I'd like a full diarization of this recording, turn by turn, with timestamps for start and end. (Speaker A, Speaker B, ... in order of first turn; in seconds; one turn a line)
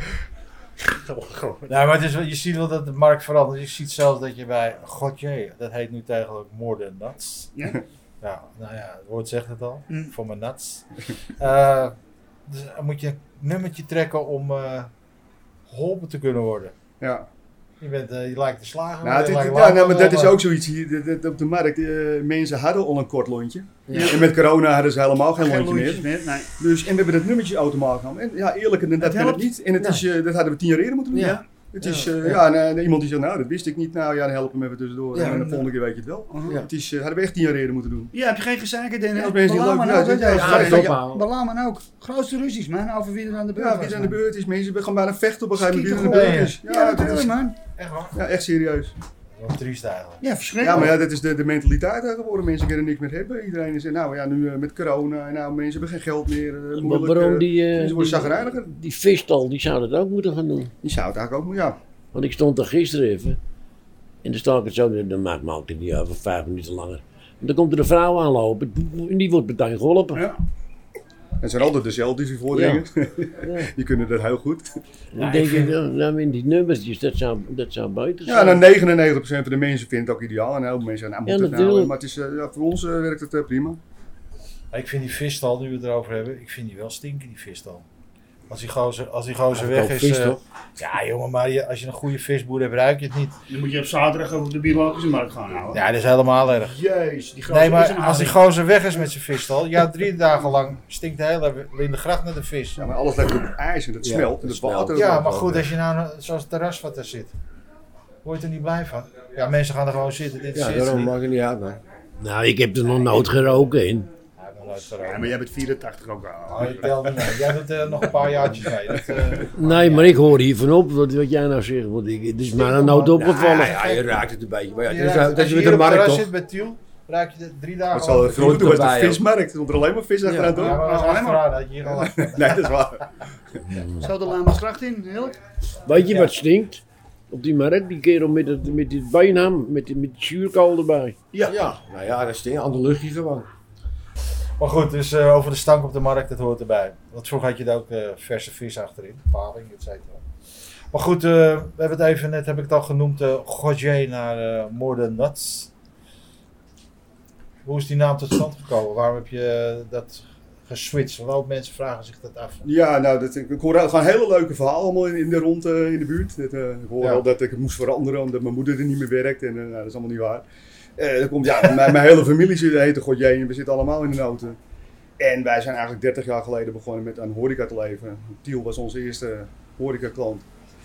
Speaker A: 1.7-7.5
Speaker B: 7.5-7.8
Speaker A: 8.2-10.9
Speaker A: 11.4-11.9
Speaker A: 12.5-14.9
Speaker A: 15.7-16.7
Speaker C: 17.0-17.3
Speaker A: 17.8-20.4
Speaker C: 19.0-38.1
Speaker D: 23.9-24.2
Speaker B: 25.4-26.5
Speaker B: 29.0-29.5
Speaker D: 29.8-30.1
Speaker D: 31.1-32.4
Speaker D: 35.1-35.5
Speaker B: 35.2-35.6
Speaker B: 36.3-36.6
Speaker B: 38.1-44.2
Speaker C: 39.1-41.0
Speaker D: 40.3-41.2
Speaker C: 43.5-47.3
Speaker B: 45.6-47.5
Speaker A: 45.9-46.6
Speaker A: 47.8-48.1
Speaker C: 48.1-48.9
Speaker A: 49.4-50.2
Speaker B: 50.2-51.0
Speaker C: 50.6-58.7
Speaker E: 56.8-60.7
Speaker C: 60.8-61.8
Speaker E: 62.1-63.4
Speaker E: 64.2-70.3
Speaker C: 71.4-74.8
Speaker E: 72.5-72.8
Speaker E: 73.4-73.7
Speaker E: 75.1-78.7
Speaker A: 75.2-75.7
Speaker C: 78.2-83.8
Speaker E: 81.3-81.9
Speaker A: 84.7-87.8
Speaker A: 88.5-93.4
Speaker D: 89.5-90.4
Speaker B: 93.5-95.8
Speaker A: 95.7-96.8
Speaker B: 96.5-98.4
Speaker A: 97.5-102.9
Speaker C: 102.8-105.3
Speaker D: 104.0-105.7
Speaker A: 104.9-107.3
Speaker A: 108.2-111.1
Speaker D: 110.5-111.8
Speaker E: 112.2-114.1
Speaker A: 114.4-115.3
Speaker B: 115.0-117.2
Speaker A: 116.5-120.2
Speaker E: 119.5-124.0
Speaker A: 122.6-123.3
Speaker D: 123.2-126.3
Speaker A: 124.8-128.6
Speaker C: 127.9-131.0
Speaker D: 128.2-129.2
Speaker D: 130.2-130.6
Speaker A: 130.5-132.7
Speaker B: 130.6-131.5
Speaker C: 131.8-133.1
Speaker B: 134.0-135.3
Speaker E: 135.8-141.2
Speaker A: 136.0-136.3
Speaker D: 141.4-143.5
Speaker A: 144.6-150.2
Speaker A: 150.9-155.7
Speaker A: 157.6-162.6
Speaker C: 162.6-170.4
Speaker C: 171.0-174.6
Speaker C: 175.2-180.4